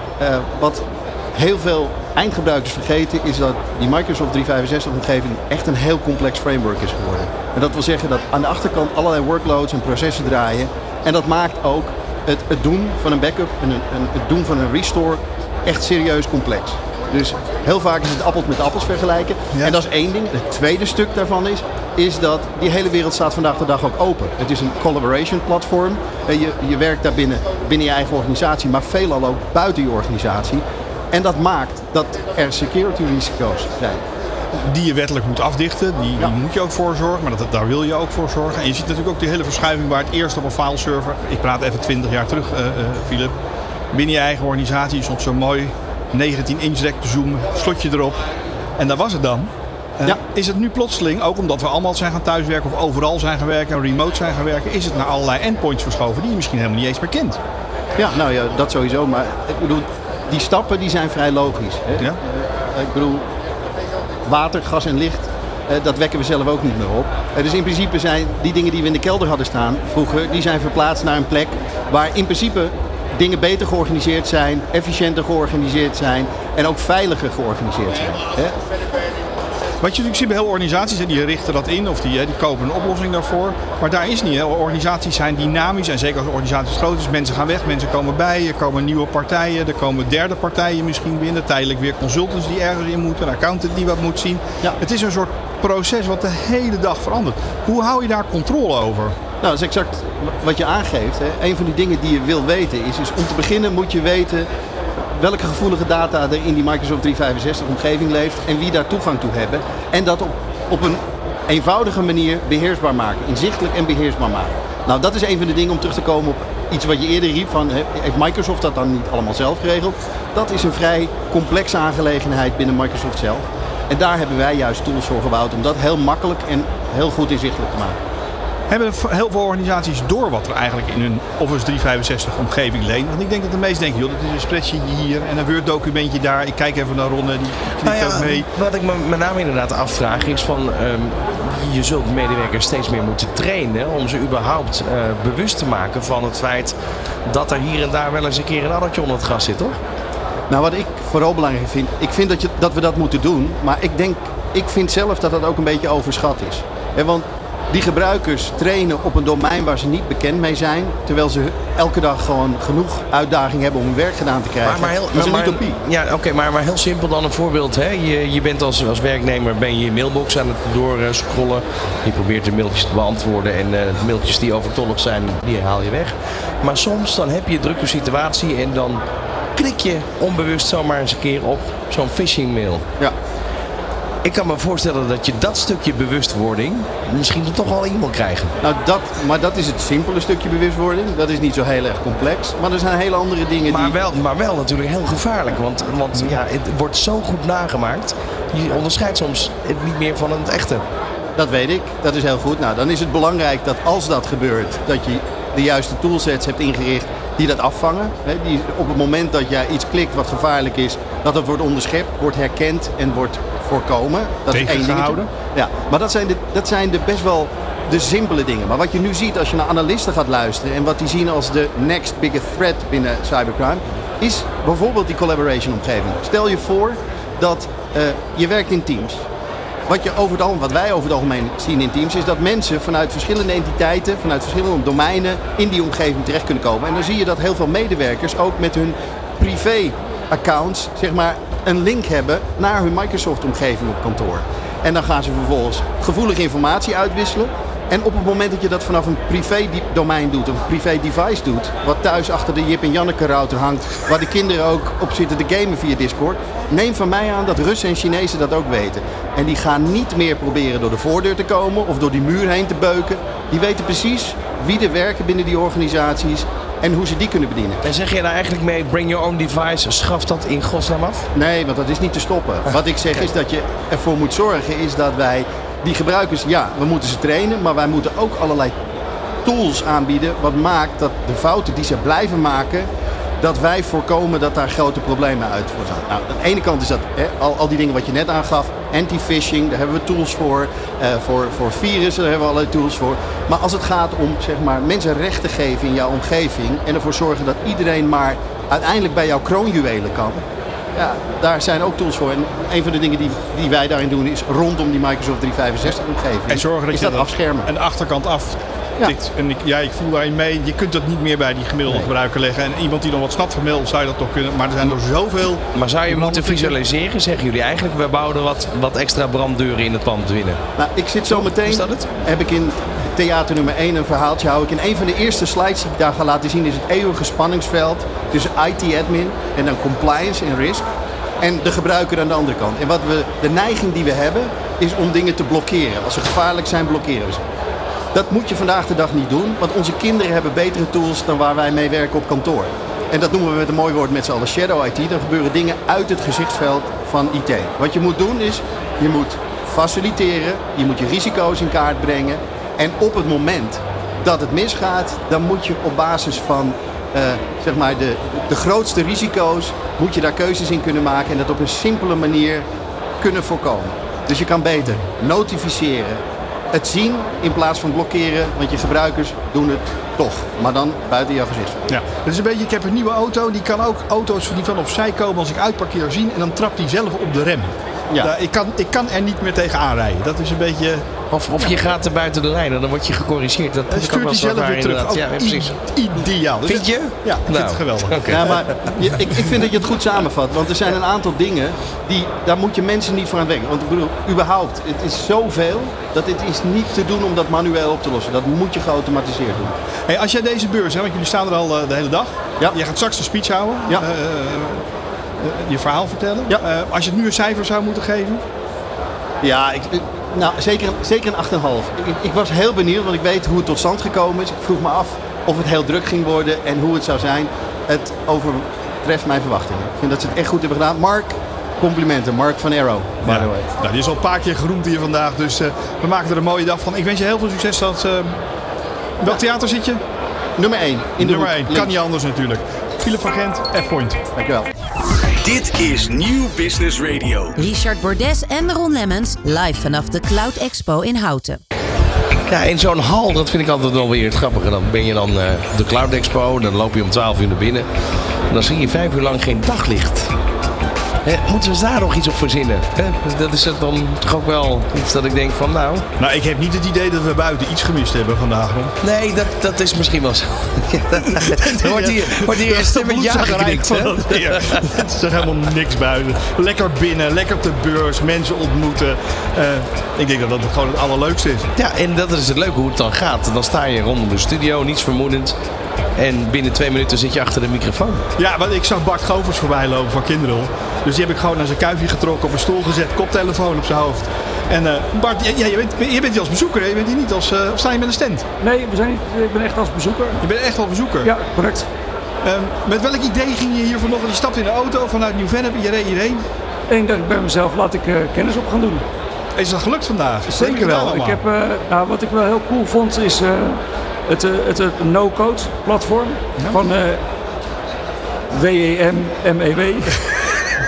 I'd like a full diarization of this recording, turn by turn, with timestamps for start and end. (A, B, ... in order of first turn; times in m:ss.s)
0:00.2-0:34.0 A
0:19.5-0:19.8 B
0:34.5-0:43.3 B
0:43.9-0:48.2 B
0:48.8-0:57.4 B
0:58.0-1:03.3 A
1:04.2-1:18.5 A
1:19.8-1:39.2 B
1:39.4-1:44.5 A
1:45.1-2:08.0 A
2:08.7-2:18.5 B
2:17.8-2:26.7 C
2:27.2-2:29.8 C
2:30.5-2:45.8 A
2:44.6-2:59.0 C
2:59.5-3:02.8 C
3:04.2-3:08.5 C
3:08.6-3:14.0 A
3:13.7-3:20.8 C
3:21.4-3:49.2 A
3:34.5-3:35.3 B
3:49.9-4:27.8 A
4:27.8-4:31.3 C
4:31.3-4:38.8 A
4:39.4-4:42.9 A
4:43.4-5:00.4 A
5:00.9-5:07.7 A
5:06.5-5:16.8 B
5:15.7-5:20.6 C
5:20.8-5:30.8 A
5:21.3-5:22.1 C
5:31.4-5:37.4 A
5:38.1-6:02.6 A
6:03.2-6:06.2 A
6:06.7-6:11.8 A
6:11.9-6:21.8 B
6:21.3-6:25.7 C
6:23.9-6:28.3 B
6:26.6-6:29.0 C
6:28.3-6:39.8 A
6:40.1-6:44.8 B
6:45.4-6:48.4 B
6:49.4-7:03.7 A
7:03.2-7:08.4 B
7:09.2-7:10.0 B
7:10.6-7:11.9 A
7:11.2-7:14.2 B
7:14.3-7:14.7 A
7:14.8-7:17.5 D
7:17.6-7:21.6 E
7:22.5-7:27.9 C
7:28.5-7:30.3 C
7:31.2-7:36.0 C
7:36.2-7:38.9 B
7:39.0-7:44.9 C
7:41.3-7:51.7 B
7:51.8-7:55.6 C
7:56.2-7:58.2 C
7:58.4-8:08.4 B
8:08.6-8:10.4 F
8:10.4-8:11.3 B
8:11.2-8:11.9 F
8:12.4-8:16.4 B
8:16.9-8:19.0 F
8:19.5-8:21.4 B
8:20.5-8:27.2 F
8:28.5-8:30.2 F